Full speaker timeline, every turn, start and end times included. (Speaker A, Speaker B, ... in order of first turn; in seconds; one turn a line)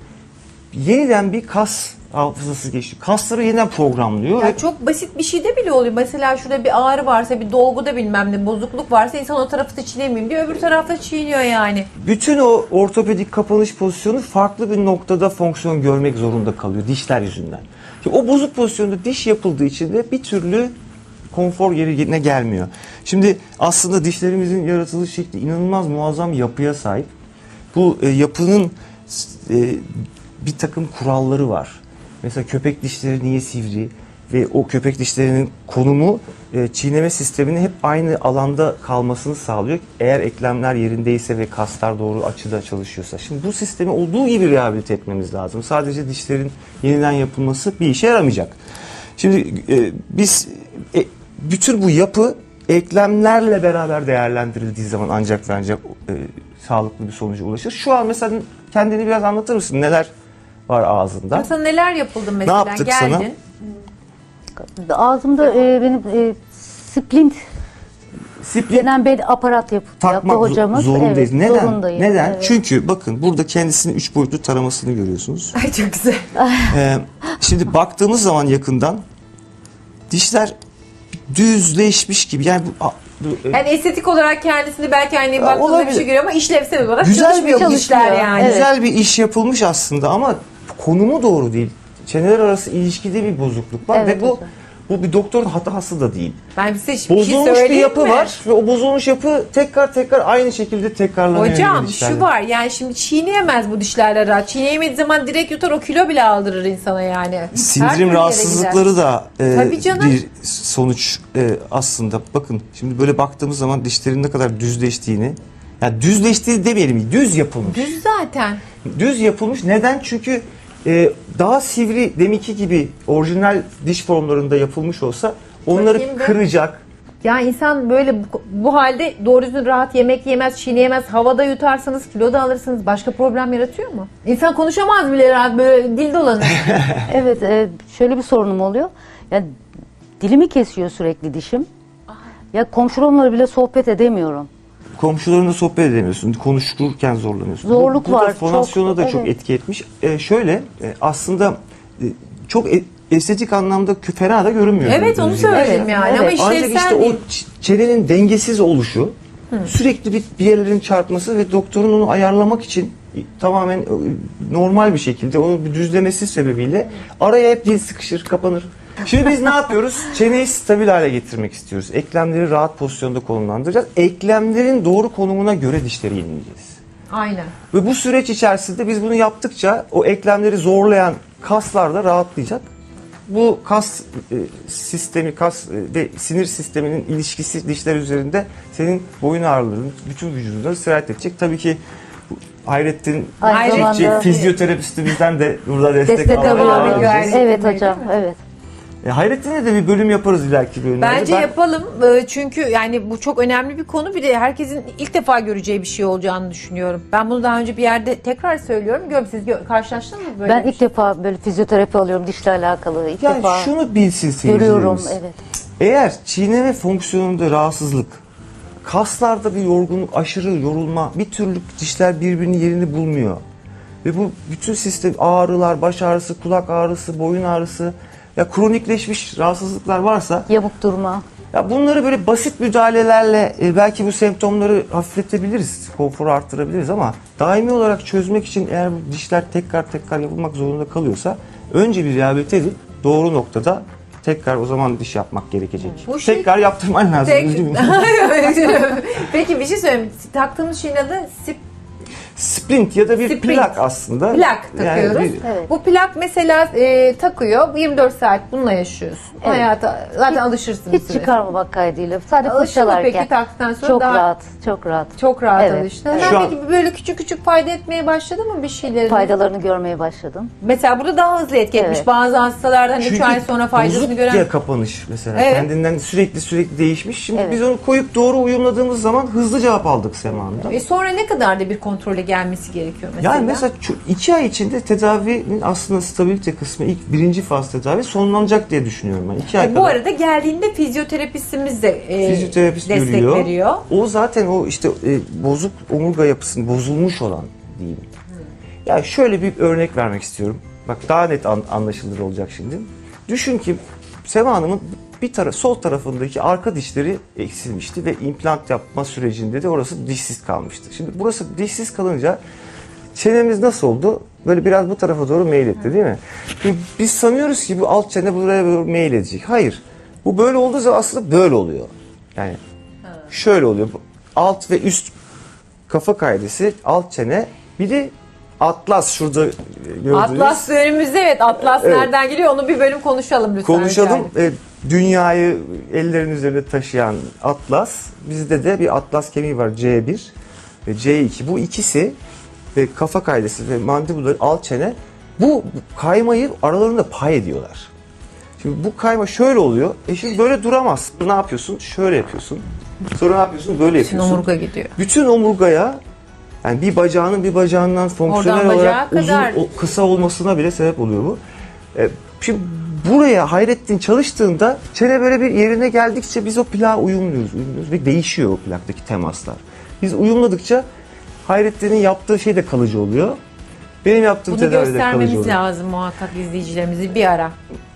Speaker A: 0.7-4.6
Speaker B: 4.4-11.9
Speaker A: 12.0-20.7
Speaker A: 21.3-27.1
Speaker A: 27.7-48.6
Speaker A: 49.2-60.1
Speaker A: 60.7-61.5
Speaker B: 61.3-63.4
Speaker A: 62.4-63.3
Speaker C: 64.6-67.4
Speaker A: 68.4-68.9
Speaker C: 68.7-72.5
Speaker A: 70.0-75.5
Speaker B: 75.6-76.3
Speaker C: 76.4-76.7
Speaker A: 76.7-79.0
Speaker A: 80.1-80.5
Speaker A: 81.3-83.6
Speaker B: 83.5-88.6
Speaker A: 85.4-86.0
Speaker A: 87.0-96.4
Speaker C: 87.4-88.7
Speaker C: 93.9-94.5
Speaker B: 96.5-98.4
Speaker A: 97.1-102.3
Speaker B: 101.3-108.8
Speaker A: 107.5-118.0
Speaker B: 109.5-110.2
Speaker B: 117.7-118.6
Speaker A: 118.8-126.8
Speaker B: 125.7-126.4
Speaker B: 127.2-136.8
Speaker C: 137.1-139.5
Speaker C: 140.2-141.7
Speaker C: 142.5-144.5
Speaker A: 145.0-176.8
Speaker C: 147.6-149.3
Speaker B: 154.8-157.2
Speaker C: 155.6-156.4
Speaker B: 177.1-177.5
Speaker A: 177.7-182.6
Speaker A: 183.3-191.8
Speaker A: 192.3-197.4
Speaker C: 193.4-194.3
Speaker B: 193.5-194.5
Speaker C: 196.0-198.4
Speaker B: 196.3-198.1
Speaker A: 199.0-201.5
Speaker B: 201.0-210.8
Speaker C: 210.4-213.7
Speaker A: 213.2-215.2
Speaker C: 214.4-215.4
Speaker A: 215.8-218.2
Speaker A: 218.8-223.4
Speaker A: 224.0-230.5
Speaker C: 230.5-231.2
Speaker A: 231.5-248.2
Speaker B: 246.1-246.5
Speaker B: 247.2-251.6
Speaker A: 252.3-255.4
Speaker B: 253.2-253.8
Speaker B: 254.3-261.3
Speaker C: 255.4-255.7
Speaker C: 259.4-259.7
Speaker C: 260.3-263.3
Speaker B: 262.4-264.2
Speaker C: 263.8-266.4
Speaker B: 265.1-269.4
Speaker A: 266.1-266.6
Speaker C: 269.1-270.5
Speaker B: 270.6-274.5
Speaker C: 271.8-272.1
Speaker A: 273.0-280.8
Speaker B: 275.3-275.7
Speaker C: 277.3-277.6
Speaker B: 280.7-283.6
Speaker A: 283.2-289.9
Speaker B: 289.5-293.8
Speaker A: 292.2-298.1
Speaker A: 298.8-312.4
Speaker A: 313.1-322.6
Speaker A: 323.3-325.1
Speaker A: 325.9-330.7
Speaker B: 330.1-334.3
Speaker A: 331.6-332.1
Speaker A: 333.6-340.3
Speaker A: 340.9-342.1
Speaker A: 342.7-347.9
Speaker A: 348.6-354.4
Speaker B: 354.0-354.9
Speaker A: 354.9-356.0
Speaker A: 356.6-361.4
Speaker B: 358.3-359.6
Speaker A: 361.9-370.9
Speaker A: 371.4-373.4
Speaker A: 374.0-375.6
Speaker B: 374.5-377.5